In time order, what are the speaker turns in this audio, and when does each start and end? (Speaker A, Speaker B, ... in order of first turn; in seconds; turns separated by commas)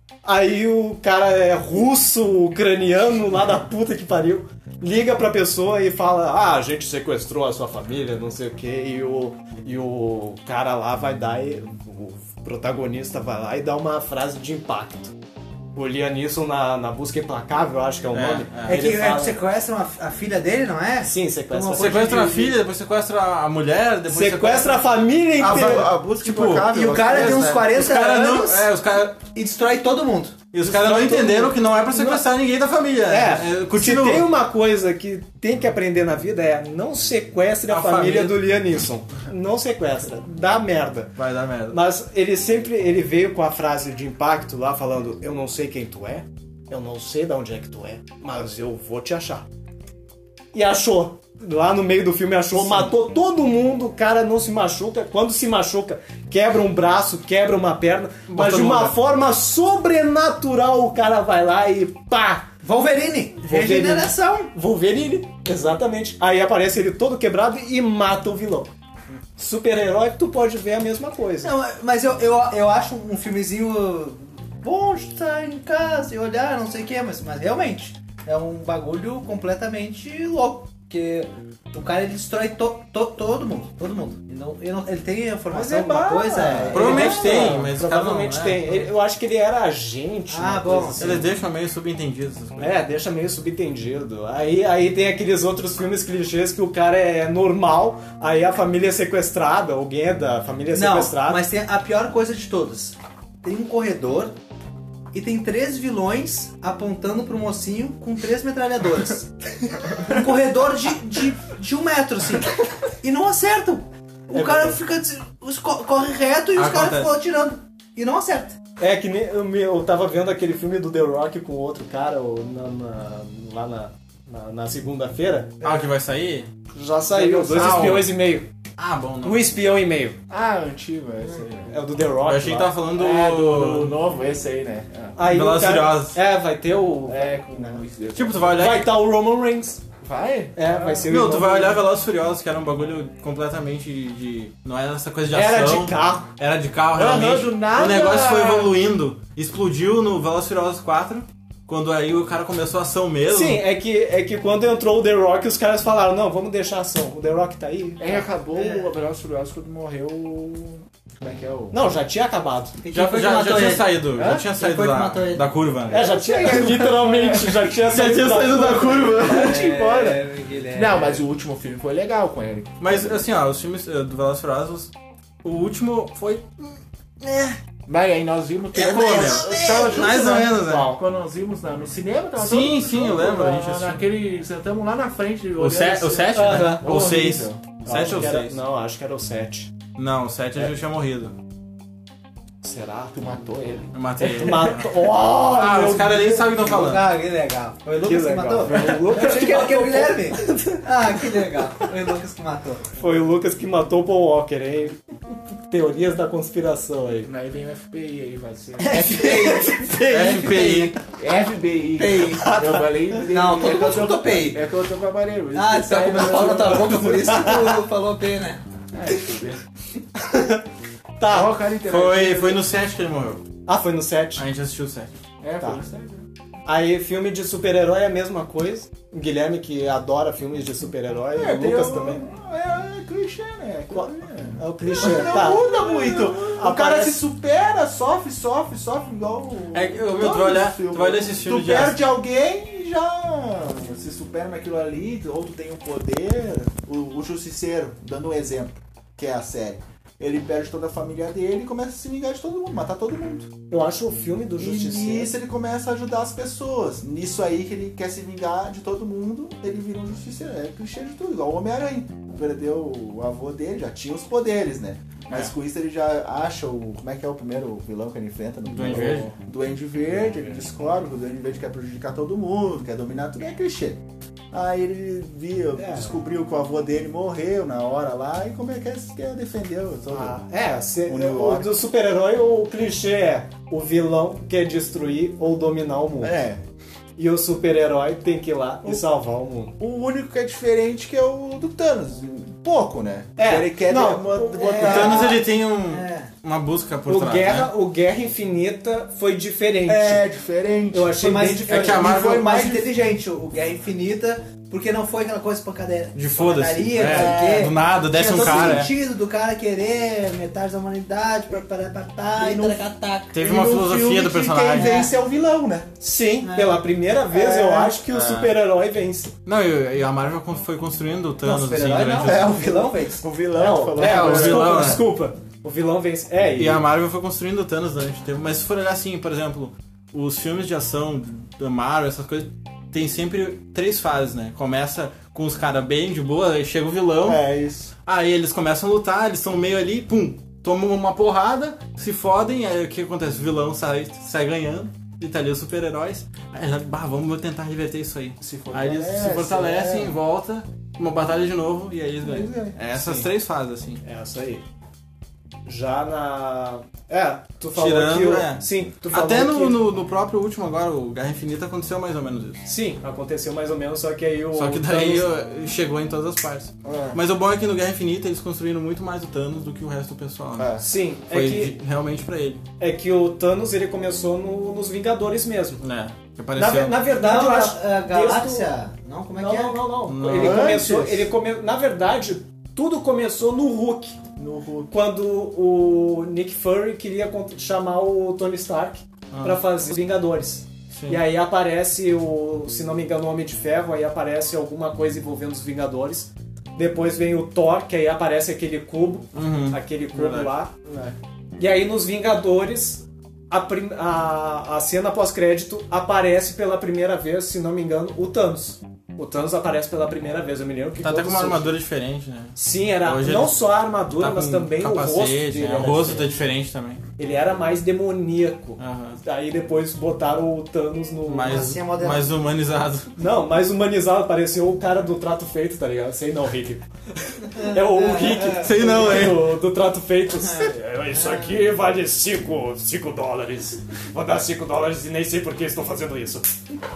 Speaker A: 0.2-15.2, Speaker A: 15.8-19.4, Speaker B: 18.1-18.8, Speaker C: 18.6-22.2, Speaker A: 21.0-22.5, Speaker B: 21.8-24.8, Speaker A: 24.1-25.9, Speaker D: 25.4-27.6, Speaker B: 25.5-29.2, Speaker C: 26.6-28.7, Speaker C: 29.3-31.3, Speaker B: 30.5-34.3, Speaker A: 30.6-32.2, Speaker A: 33.1-41.1, Speaker B: 37.7-38.5, Speaker B: 41.2-41.8, Speaker A: 41.7-49.5, Speaker A: 50.5-62.5, Speaker B: 58.3-59.0, Speaker C: 62.6-64.5, Speaker A: 63.4-68.7, Speaker A: 69.4-71.5, Speaker C: 71.4-87.5, Speaker A: 85.5-91.3, Speaker D: 85.6-87.7, Speaker B: 86.7-88.9, Speaker C: 90.3-91.3, Speaker B: 91.0-92.8, Speaker A: 92.6-101.4, Speaker C: 100.7-104.3, Speaker C: 105.1-118.6, Speaker A: 114.3-114.8, Speaker B: 116.6-117.1, Speaker A: 118.8-125.6, Speaker B: 125.6-126.5, Speaker A: 126.7-128.5, Speaker B: 127.1-128.2, Speaker D: 127.2-127.8, Speaker B: 128.8-129.5, Speaker A: 129.2-130.2, Speaker D: 130.3-131.8, Speaker A: 131.7-132.8, Speaker B: 132.2-134.0, Speaker D: 132.9-135.2, Speaker A: 135.2-137.8, Speaker B: 135.2-136.2, Speaker D: 137.1-138.8, Speaker B: 138.1-138.9, Speaker A: 138.6-139.8, Speaker D: 140.0-141.1, Speaker A: 140.6-141.8, Speaker B: 141.1-153.6, Speaker A: 145.3-146.3, Speaker D: 146.9-148.8, Speaker A: 153.3-158.2, Speaker D: 158.0-161.8, Speaker C: 158.6-158.9, Speaker A: 161.7-162.8, Speaker C: 162.8-165.5, Speaker B: 162.9-166.1, Speaker A: 165.9-169.3, Speaker D: 165.9-167.7, Speaker B: 167.8-169.6, Speaker D: 168.9-173.2, Speaker C: 169.2-171.2, Speaker B: 172.8-174.9, Speaker B: 175.4-177.6, Speaker D: 177.9-188.2, Speaker C: 178.7-180.2, Speaker B: 178.8-181.0, Speaker B: 182.4-184.0, Speaker B: 185.6-188.6, Speaker A: 186.3-187.1, Speaker A: 187.8-189.7, Speaker B: 190.0-191.3, Speaker A: 192.6-193.2, Speaker D: 193.1-193.9, Speaker B: 193.9-197.1, Speaker A: 194.2-196.5, Speaker C: 196.5-202.9, Speaker A: 198.0-200.9, Speaker A: 203.0-205.0, Speaker A: 205.7-207.3, Speaker D: 207.2-209.8, Speaker C: 208.8-211.0, Speaker B: 210.1-211.0, Speaker D: 211.2-217.4, Speaker C: 212.0-212.7, Speaker C: 213.2-214.6, Speaker C: 215.5-218.6, Speaker D: 218.9-219.6, Speaker A: 220.2-220.6, Speaker A: 221.2-221.5, Speaker D: 221.3-222.6, Speaker B: 221.9-223.4, Speaker A: 223.7-224.4, Speaker B: 224.4-225.1, Speaker D: 225.4-226.3, Speaker A: 226.7-232.2, Speaker D: 231.3-253.5, Speaker A: 233.9-237.2, Speaker B: 239.7-242.0, Speaker A: 253.7-255.3, Speaker D: 254.6-274.0, Speaker B: 268.7-269.3, Speaker D: 274.5-280.4, Speaker A: 275.8-276.1, Speaker A: 280.1-286.4, Speaker D: 281.1-281.7, Speaker D: 286.2-286.6, Speaker A: 287.2-289.8, Speaker D: 289.8-295.4, Speaker A: 293.4-295.3, Speaker B: 294.8-297.7, Speaker C: 294.8-296.3, Speaker A: 297.1-300.2, Speaker D: 299.9-302.9, Speaker A: 300.9-302.0, Speaker C: 301.2-313.4, Speaker B: 301.7-302.4, Speaker B: 306.1-308.9, Speaker D: 307.0-307.7, Speaker D: 308.4-308.8, Speaker D: 312.4-312.8, Speaker B: 313.3-314.9, Speaker D: 313.4-315.9, Speaker C: 314.7-315.1, Speaker A: 316.0-319.3, Speaker C: 316.4-316.8, Speaker D: 317.4-317.9, Speaker B: 318.0-318.6, Speaker B: 319.4-322.5, Speaker C: 321.4-323.2, Speaker D: 322.2-325.0, Speaker A: 323.6-326.9, Speaker B: 324.0-325.0, Speaker B: 326.6-337.4, Speaker D: 337.2-337.9, Speaker B: 338.1-354.0, Speaker D: 348.4-350.2, Speaker D: 352.2-352.8, Speaker A: 352.9-353.3, Speaker A: 354.0-354.6, Speaker A: 355.7-359.8, Speaker B: 357.7-362.6, Speaker A: 362.6-365.3, Speaker B: 364.5-370.8, Speaker D: 366.8-367.2, Speaker D: 370.6-370.8, Speaker A: 370.8-371.8, Speaker B: 371.3-372.6, Speaker A: 372.8-375.8, Speaker B: 375.8-377.0, Speaker A: 376.6-378.7, Speaker C: 377.1-379.8, Speaker A: 379.4-384.2, Speaker B: 380.1-380.8, Speaker D: 380.3-381.3, Speaker D: 384.4-384.9, Speaker A: 384.9-400.7, Speaker B: 389.3-389.6, Speaker B: 390.9-391.2, Speaker B: 399.3-400.5, Speaker D: 400.9-401.1, Speaker A: 401.6-411.8, Speaker B: 411.0-417.0, Speaker A: 412.6-416.3, Speaker A: 417.2-421.8, Speaker B: 418.8-419.2, Speaker B: 421.3-423.1, Speaker C: 421.4-422.4, Speaker A: 423.2-436.6, Speaker C: 427.5-429.3, Speaker B: 428.6-429.5, Speaker C: 430.4-431.6